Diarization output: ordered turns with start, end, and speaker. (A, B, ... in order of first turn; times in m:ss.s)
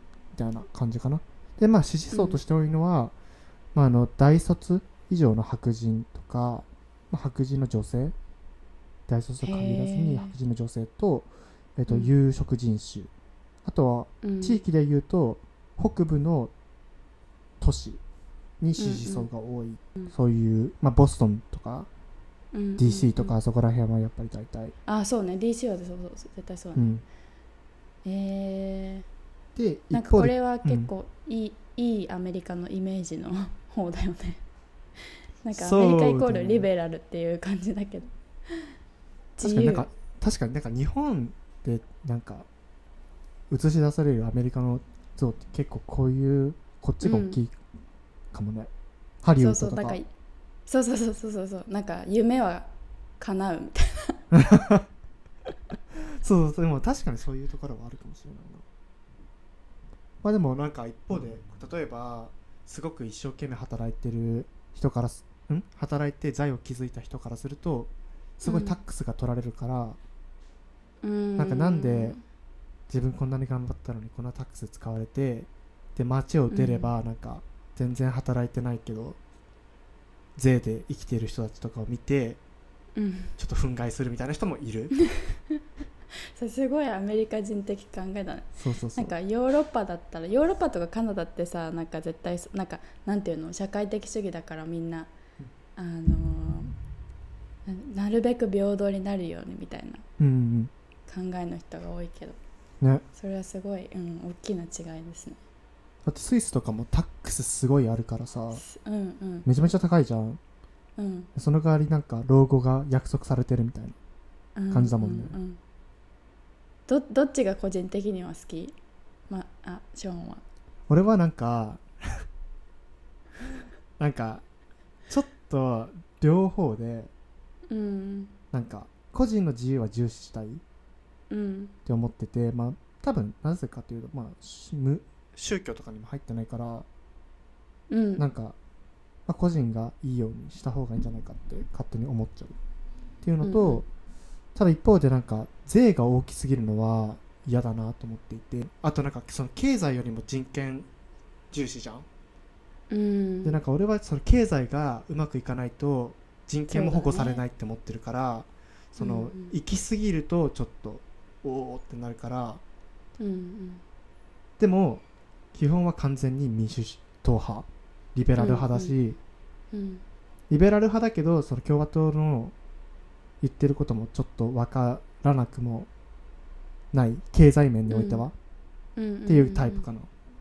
0:00.4-0:03.1 A
0:02.1-0:02.4 B
0:03.7-0:08.2 A
0:09.1-0:13.1 A
0:09.4-0:10.4 B
0:11.9-0:12.1 B
0:13.6-0:16.5 A
0:14.2-0:14.6 B
0:17.6-0:18.0 A
0:18.6-0:21.9 A
0:18.8-0:19.3 B
0:22.5-0:23.4 B
0:22.8-0:24.8 A
0:24.9-0:26.9 B
0:26.8-0:27.0 A
0:28.0-0:29.1 B
0:29.6-0:30.9 A
0:29.9-0:34.4 B
0:35.4-0:38.7 B
0:35.5-0:36.7 A
0:39.4-0:39.9 B
0:39.4-0:42.5 A
0:43.5-0:47.5 A
0:47.0-0:47.4 B
0:48.3-0:48.7 A
0:49.2-0:50.0 A
0:49.4-0:50.1 B
0:50.7-0:52.7 B
0:53.2-0:54.2 B
0:54.3-0:54.9 A
0:56.2-0:58.6 A
1:00.2-1:10.0 A
1:08.4-1:08.8 B
1:11.0-1:12.2 B
1:11.4-1:12.2 A
1:12.9-1:19.2 A
1:16.5-1:16.9 B
1:20.4-1:22.4 A
1:23.0-1:23.3 B
1:23.4-1:24.9 A
1:25.1-1:25.6 B
1:26.4-1:35.1 B
1:28.6-1:29.1 A
1:35.8-1:36.7 B
1:37.7-1:40.0 B
1:40.2-1:40.7 A
1:41.1-1:42.4 B
1:43.2-1:45.4 B
1:46.0-1:48.6 A
1:48.5-1:49.5 B
1:49.4-1:50.4 A
1:51.0-1:51.3 B
1:51.4-1:54.0 A
1:54.6-1:55.6 B
1:54.7-1:55.3 A
1:56.9-1:58.8 B
1:59.3-2:00.4 B
2:00.9-2:02.2 A
2:04.0-2:04.4 A
2:05.1-2:07.1 A
2:07.7-2:08.3 B
2:08.5-2:10.6 A
2:11.3-2:11.7 B
2:11.9-2:16.9 A
2:17.9-2:18.2 B
2:18.2-2:18.6 A
2:19.3-2:22.6 A
2:23.2-2:23.8 A
2:23.4-2:23.8 B
2:24.6-2:30.9 A
2:31.5-2:32.1 A
2:32.9-2:33.6 B
2:33.4-2:42.6 A
2:36.7-2:37.4 B
2:39.0-2:39.5 B
2:43.2-2:43.8 B
2:44.6-2:45.0 A
2:45.5-2:49.2 A
2:48.4-2:49.0 B
2:49.7-2:50.0 B
2:50.5-2:52.5 A
2:53.4-2:55.9 A
2:56.9-2:58.3 A
2:57.9-2:58.2 B
2:59.0-2:59.9 B
2:59.3-3:00.1 A